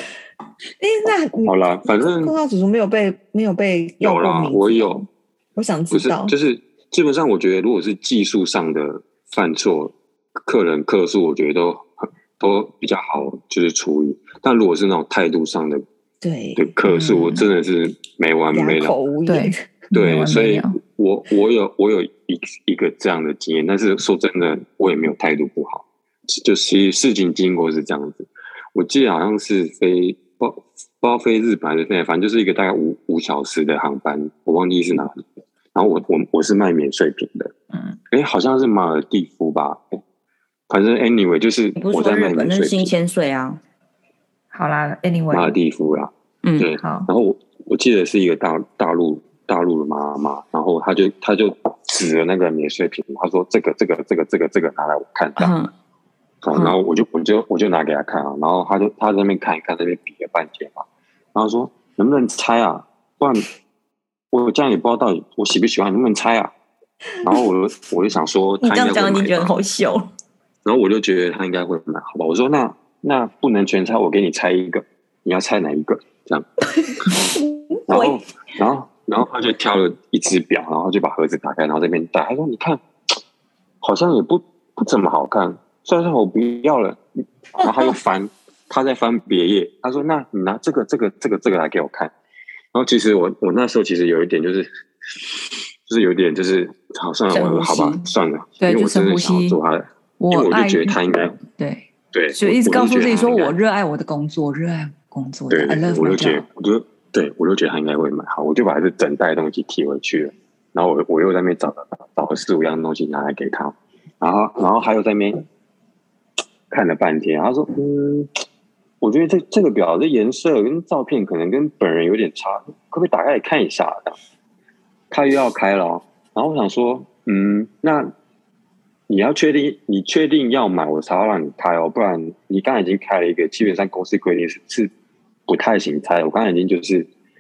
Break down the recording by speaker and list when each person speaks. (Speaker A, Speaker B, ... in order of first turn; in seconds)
Speaker A: 0.8-6.3, 16.2-16.7, 18.5-19.6
Speaker B: 1.4-2.4, 4.0-5.0, 5.9-15.8, 16.6-19.0, 19.9-37.5, 38.1-40.0, 40.7-42.9, 45.3-55.5, 56.4-63.5, 64.3-66.5, 67.2-69.5, 70.7-77.3, 77.9-82.8, 83.8-87.0, 87.5-92.1, 92.7-101.4, 102.1-103.6, 105.5-115.5, 116.7-118.3, 119.0-124.2, 125.1-128.1, 129.1-134.9, 135.5-137.1
Speaker C: 16.9-17.5, 19.3-20.8, 44.5-45.6, 46.8-47.1, 98.6-99.6, 100.2-106.4
Speaker D: 41.8-43.6, 55.4-55.7, 68.6-70.1, 77.1-78.2, 97.3-98.1